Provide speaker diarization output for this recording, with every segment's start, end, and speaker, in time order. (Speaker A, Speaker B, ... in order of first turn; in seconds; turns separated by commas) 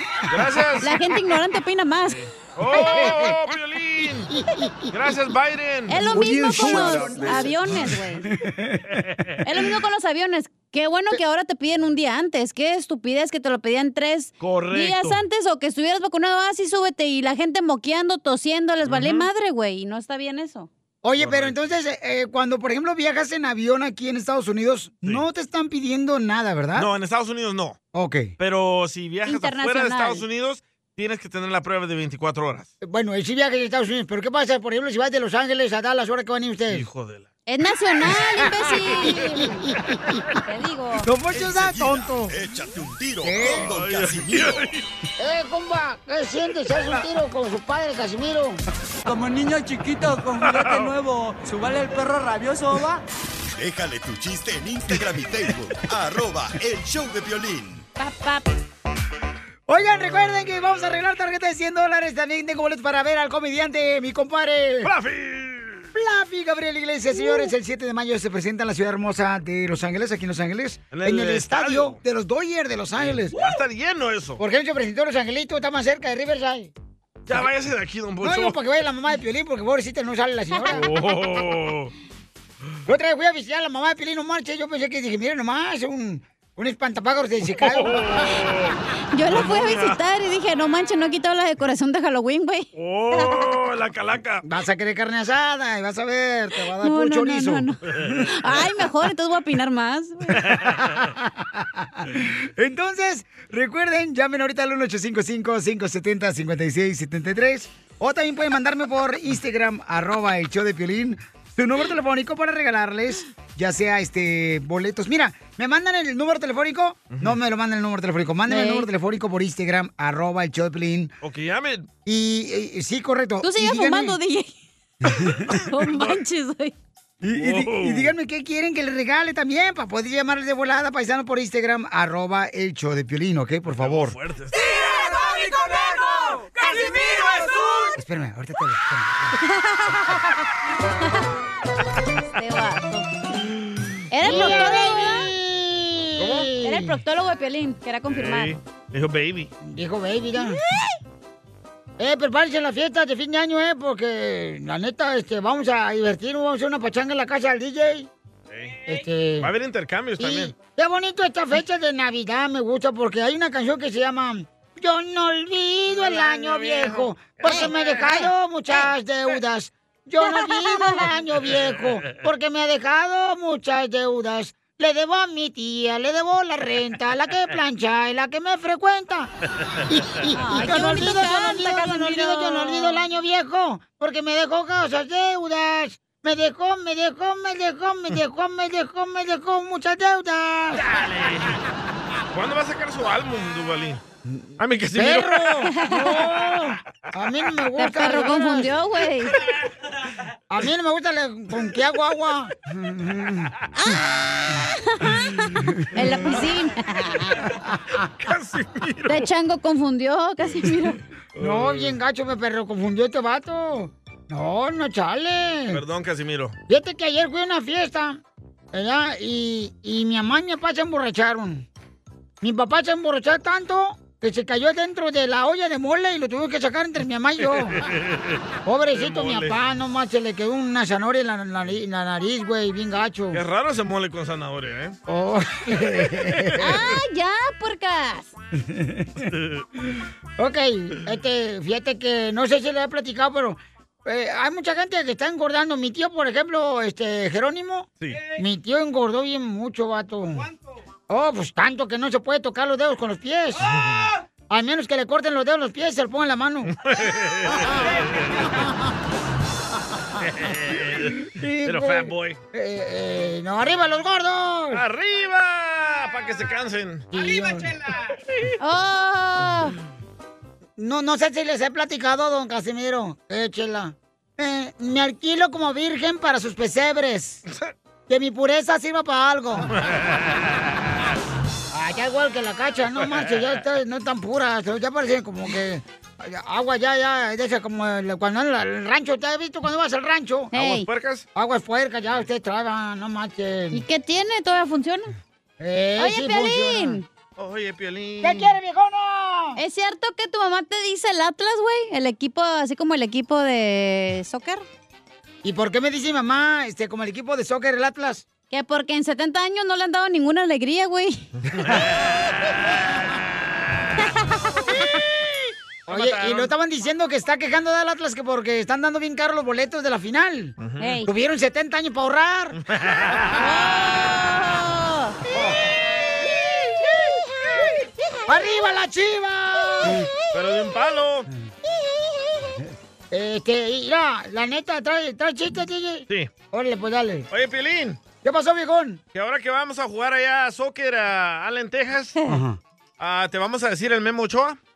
Speaker A: 0.3-1.0, Speaker B: 0.8-3.4, Speaker A: 2.1-4.3, Speaker C: 2.7-3.3, Speaker A: 4.9-7.8, Speaker B: 5.9-8.3, Speaker C: 6.1-8.0, Speaker B: 9.4-20.7, Speaker A: 14.4-15.2, Speaker A: 18.8-19.3, Speaker C: 21.0-26.9, Speaker A: 21.2-21.7, Speaker A: 26.8-27.8, Speaker C: 27.9-28.3, Speaker A: 28.4-32.7, Speaker B: 29.2-30.2, Speaker C: 32.8-36.9, Speaker A: 36.7-37.3, Speaker B: 37.5-39.6, Speaker C: 39.0-39.7, Speaker B: 40.5-41.1, Speaker C: 41.0-42.3, Speaker D: 41.4-44.7, Speaker C: 43.2-43.7, Speaker A: 43.4-44.8, Speaker C: 45.2-48.6, Speaker E: 49.0-53.0, Speaker A: 50.4-50.9, Speaker D: 53.5-57.8, Speaker B: 58.0-58.5, Speaker C: 59.7-64.9, Speaker A: 60.0-60.9, Speaker A: 64.8-65.9, Speaker C: 65.9-73.4, Speaker B: 67.2-67.5, Speaker A: 70.9-72.0, Speaker A: 73.0-74.4, Speaker C: 74.4-76.7, Speaker A: 77.3-78.6, Speaker C: 78.2-80.9, Speaker A: 80.7-81.9, Speaker C: 82.9-88.3, Speaker A: 87.6-88.8, Speaker B: 89.1-93.5, Speaker A: 89.3-90.0, Speaker A: 92.7-94.4, Speaker C: 94.4-98.2, Speaker B: 96.8-100.4, Speaker A: 98.0-98.3, Speaker C: 100.4-121.1, Speaker A: 100.5-100.8, Speaker A: 117.1-117.4, Speaker B: 118.5-118.9, Speaker A: 121.2-121.9, Speaker C: 122.0-124.2, Speaker B: 123.4-124.5, Speaker C: 125.1-125.5, Speaker B: 125.5-126.7, Speaker A: 125.8-126.2, Speaker C: 127.2-134.2, Speaker A: 127.3-128.1, Speaker A: 133.8-135.1, Speaker C: 138.0-139.4, Speaker B: 139.4-140.4, Speaker B: 142.3-143.1, Speaker B: 144.1-145.3, Speaker C: 144.2-147.0, Speaker A: 146.2-146.5, Speaker B: 146.6-148.5, Speaker A: 148.1-149.5, Speaker C: 149.6-150.6, Speaker C: 152.0-158.1, Speaker A: 158.5-158.8, Speaker C: 158.9-159.5, Speaker A: 159.4-160.5, Speaker C: 160.2-179.3, Speaker A: 165.9-168.0, Speaker B: 167.5-168.9, Speaker B: 170.5-171.0, Speaker A: 171.4-171.9, Speaker C: 179.9-191.0, Speaker B: 180.3-183.0, Speaker A: 190.8-191.6, Speaker A: 192.3-194.0, Speaker C: 194.3-198.7, Speaker A: 194.6-195.6, Speaker B: 195.7-196.2, Speaker B: 197.8-199.3, Speaker C: 200.5-203.5, Speaker B: 203.8-207.4, Speaker C: 205.6-206.1, Speaker A: 208.2-209.3, Speaker B: 209.1-211.0, Speaker A: 211.3-211.9, Speaker C: 211.4-215.8, Speaker A: 215.7-216.5, Speaker C: 216.7-218.2, Speaker C: 218.7-221.7, Speaker C: 222.4-227.8, Speaker A: 227.8-228.4, Speaker C: 228.6-233.4, Speaker A: 228.9-229.6, Speaker A: 233.3-234.9, Speaker C: 235.1-236.8, Speaker A: 236.2-236.6, Speaker B: 236.6-238.3, Speaker C: 238.6-239.1, Speaker A: 239.2-239.6, Speaker C: 240.4-250.5, Speaker A: 248.0-248.3, Speaker C: 251.1-253.7, Speaker A: 253.7-254.0, Speaker C: 254.5-256.7, Speaker A: 256.8-258.5, Speaker A: 260.2-262.4, Speaker C: 261.2-264.8, Speaker A: 264.7-267.1, Speaker C: 267.1-267.7, Speaker B: 268.6-269.7, Speaker C: 270.8-277.4, Speaker C: 278.1-279.7, Speaker C: 281.7-290.5, Speaker B: 290.5-290.9, Speaker A: 290.5-291.2, Speaker C: 291.4-293.8, Speaker B: 293.7-295.1, Speaker C: 295.6-297.0, Speaker B: 296.0-297.0, Speaker A: 297.4-298.5, Speaker C: 298.2-299.6, Speaker B: 299.6-304.6, Speaker C: 305.4-308.2, Speaker B: 308.5-311.3, Speaker A: 311.6-311.9, Speaker B: 314.0-314.6, Speaker A: 315.9-316.5, Speaker C: 315.9-322.6, Speaker A: 320.6-321.0, Speaker B: 320.8-321.1, Speaker A: 322.6-323.4, Speaker B: 323.3-325.2, Speaker C: 328.3-330.1, Speaker A: 330.3-331.3, Speaker C: 332.6-337.3, Speaker A: 337.3-338.0, Speaker C: 338.2-339.0, Speaker A: 339.1-342.2, Speaker C: 342.3-342.6, Speaker A: 343.0-344.6